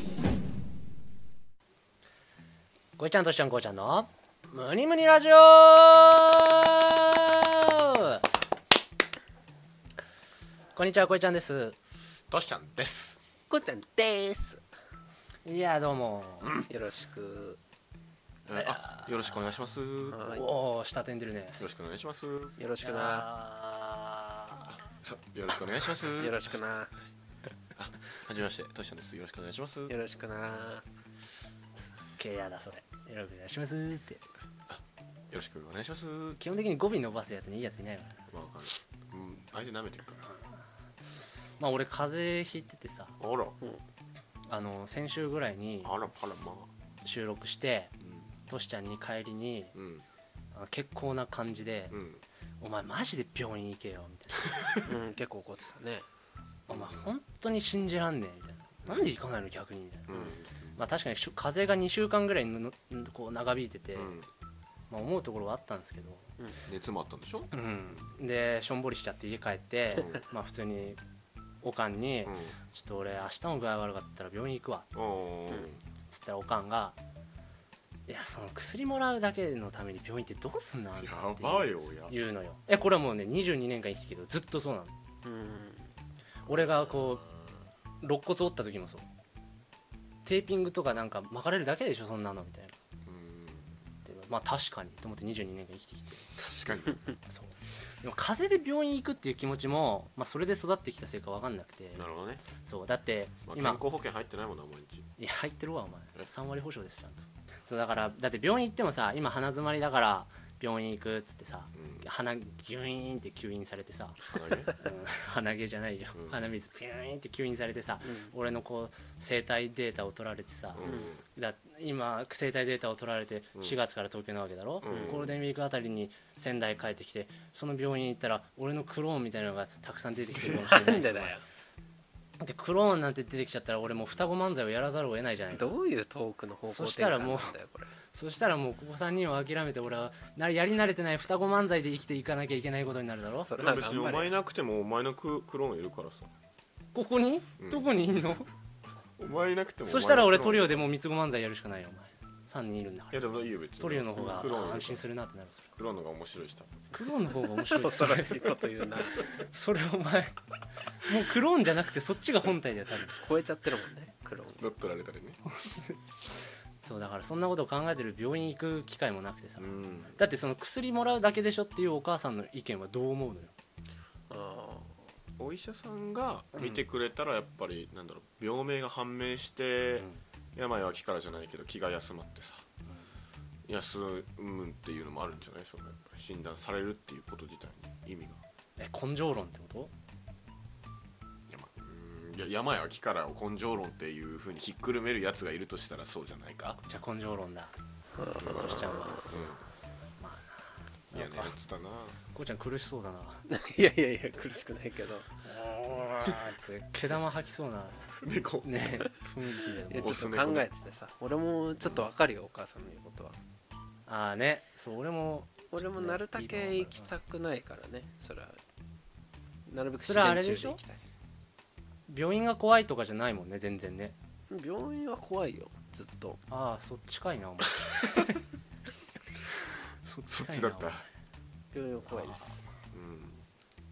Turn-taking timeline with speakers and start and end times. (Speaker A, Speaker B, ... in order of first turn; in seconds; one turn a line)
Speaker A: 3.0-8.2
Speaker A: 10.7-11.8
Speaker B: 12.3-13.2
Speaker C: 13.5-14.6
Speaker A: 15.4-16.5
Speaker C: 16.7-17.6
Speaker B: 18.5-20.2
Speaker A: 18.6-19.1
Speaker C: 20.1-20.4
Speaker A: 20.3-21.6
Speaker B: 21.6-22.6
Speaker C: 22.6-23.2
Speaker A: 22.8-24.6
Speaker B: 24.6-26.4
Speaker C: 26.1-26.9
Speaker B: 27.8-29.9
Speaker C: 29.9-30.8
Speaker A: 32.1-34.2
Speaker B: 34.7-36.4
Speaker A: 36.4-38.3
Speaker B: 38.3-40.3
Speaker A: 41.6-43.2
Speaker B: 43.2-43.5
Speaker A: 44.5-45.9
Speaker B: 45.8-46.7
Speaker A: 47.0-47.9
Speaker B: 48.0-48.3
Speaker A: 48.5-49.7
Speaker B: 49.7-50.0
Speaker A: 50.5-52.0
Speaker B: 51.9-52.2
Speaker A: 52.6-54.5
Speaker C: 54.8-56.0
Speaker A: 56.7-60.2
Speaker B: 56.7-57.1
Speaker B: 60.1-60.8
Speaker A: 60.8-64.2
Speaker B: 63.9-64.3
Speaker A: 64.9-66.3
Speaker B: 66.7-67.5
Speaker A: 67.5-71.0
Speaker A: 71.6-74.9
Speaker B: 72.2-72.5
Speaker B: 74.9-75.8
Speaker A: 76.1-77.0
Speaker A: 78.1-84.9
Speaker B: 81.0-82.1
Speaker C: 85.2-85.9
Speaker A: 86.5-87.2
Speaker B: 86.5-87.5
Speaker A: 88.0-89.0
Speaker A: 90.2-92.7
Speaker B: 93.0-93.8
Speaker A: 94.0-96.3
Speaker B: 96.4-97.0
Speaker A: 97.3-103.8
Speaker B: 102.0-102.4
Speaker B: 103.5-105.1
Speaker A: 105.2-131.4
Speaker B: 111.7-112.0
Speaker B: 114.3-114.7
Speaker B: 116.1-116.5
Speaker C: 118.0-118.3
Speaker B: 120.7-121.2
Speaker C: 120.8-121.1
Speaker B: 124.8-125.3
Speaker B: 130.3-130.7
Speaker C: 130.5-131.4
Speaker A: 132.4-135.7
Speaker C: 135.5-137.9
Speaker A: 136.7-137.5
Speaker A: 138.1-143.5
Speaker C: 143.4-144.3
Speaker B: 143.6-146.3
Speaker A: 146.9-148.5
Speaker B: 147.6-148.0
Speaker B: 149.2-150.8
Speaker A: 149.8-155.7
Speaker B: 153.1-155.0
Speaker C: 154.2-154.5
Speaker B: 155.7-156.8
Speaker A: 156.9-158.5
Speaker C: 157.6-159.2
Speaker A: 159.3-160.4
Speaker A: 161.0-163.1
Speaker C: 163.2-164.6
Speaker B: 164.6-165.4
Speaker A: 165.6-165.9
Speaker A: 166.8-173.5
Speaker B: 169.6-170.2
Speaker C: 174.3-175.0
Speaker B: 175.4-182.6
Speaker A: 176.5-176.8
Speaker B: 183.7-188.4
Speaker A: 188.8-189.9
Speaker B: 191.5-196.8
Speaker A: 196.8-197.7
Speaker C: 198.2-199.3
Speaker A: 198.4-199.2
Speaker B: 198.4-199.6
Speaker A: 200.2-201.5
Speaker B: 201.1-202.2
Speaker A: 202.3-203.4
Speaker C: 203.5-205.3
Speaker A: 205.4-210.2
Speaker B: 208.2-208.9
Speaker C: 209.9-213.4
Speaker B: 210.0-210.7
Speaker A: 214.1-217.1
Speaker C: 215.7-218.6
Speaker C: 219.7-221.0
Speaker A: 220.1-220.8
Speaker A: 222.1-224.2
Speaker C: 224.5-226.4
Speaker A: 226.5-228.4
Speaker A: 229.7-231.1
Speaker B: 230.3-231.0
Speaker C: 231.7-232.6
Speaker A: 232.1-232.4
Speaker B: 232.9-233.4